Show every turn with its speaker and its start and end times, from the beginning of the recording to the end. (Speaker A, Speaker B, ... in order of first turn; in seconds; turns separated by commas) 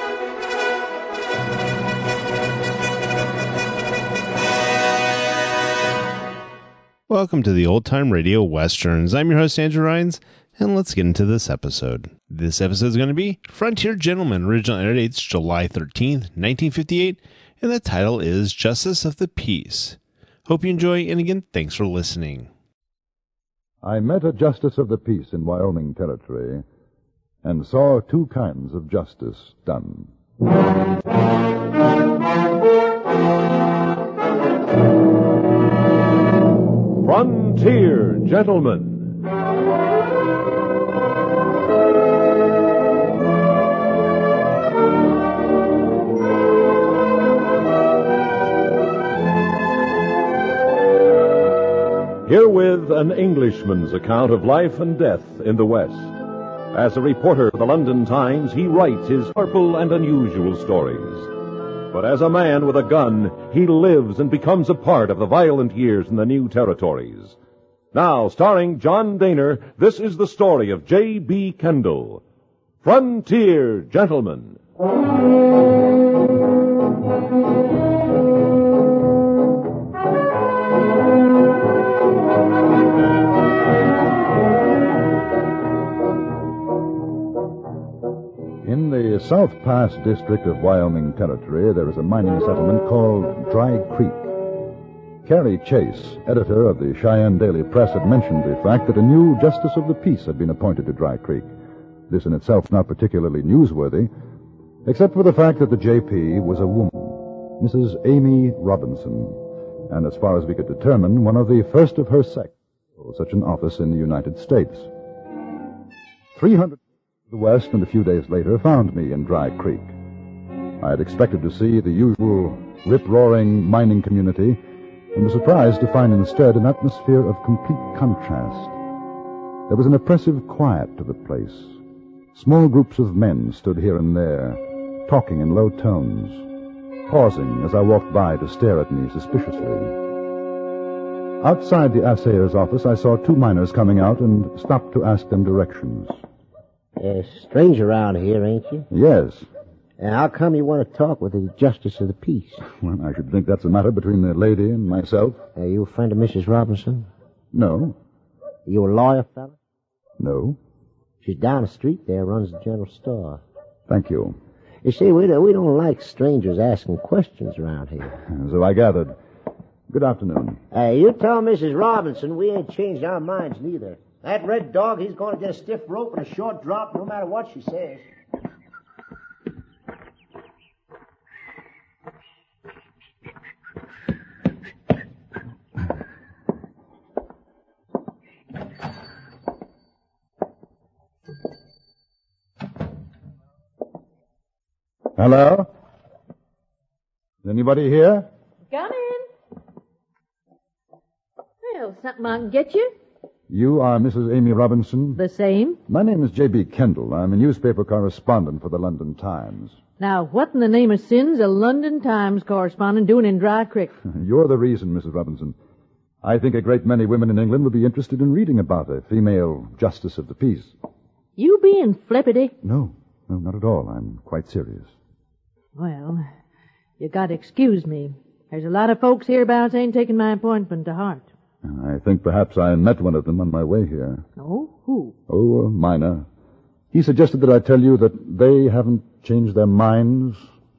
Speaker A: 7.1-22.5, Speaker B: 23.8-26.6, Speaker B: 27.4-30.1, Speaker C: 37.0-39.1, Speaker C: 52.2-56.2, Speaker C: 56.7-61.3, Speaker C: 61.9-67.3, Speaker C: 67.9-72.2, Speaker C: 72.8-74.6, Speaker B: 88.6-94.3, Speaker B: 95.2-101.5, Speaker B: 102.1-104.1, Speaker B: 104.8-114.9, Speaker B: 116.3-116.8, Speaker B: 117.3-119.9, Speaker B: 120.8-124.6, Speaker B: 125.1-128.7, Speaker B: 129.7-131.8, Speaker B: 132.3-136.5, Speaker B: 137.1-139.9, Speaker B: 141.4-146.2, Speaker D: 147.0-148.9, Speaker B: 148.9-149.5, Speaker D: 150.0-152.6, Speaker B: 152.7-155.4, Speaker D: 155.6-157.1, Speaker B: 157.5-158.0, Speaker D: 158.7-159.6, Speaker B: 160.2-160.6, Speaker D: 161.2-163.4, Speaker B: 163.9-164.3, Speaker D: 164.8-168.1, Speaker B: 168.2-169.2, Speaker B: 169.9-170.6, Speaker D: 170.7-178.0, Speaker B: 195.2-195.7, Speaker B: 197.4-198.3, Speaker E: 198.7-199.2, Speaker E: 201.6-202.9, Speaker B: 203.5-205.2, Speaker E: 205.2-205.8, Speaker B: 205.9-209.8, Speaker E: 210.0-213.9, Speaker B: 214.0-215.5, Speaker B: 216.2-220.7, Speaker E: 221.4-222.5, Speaker B: 222.6-224.9, Speaker E: 225.8-226.2, Speaker E: 227.0-231.2, Speaker B: 231.6-234.2, Speaker E: 234.4-235.1, Speaker B: 235.3-236.2, Speaker B: 236.9-240.5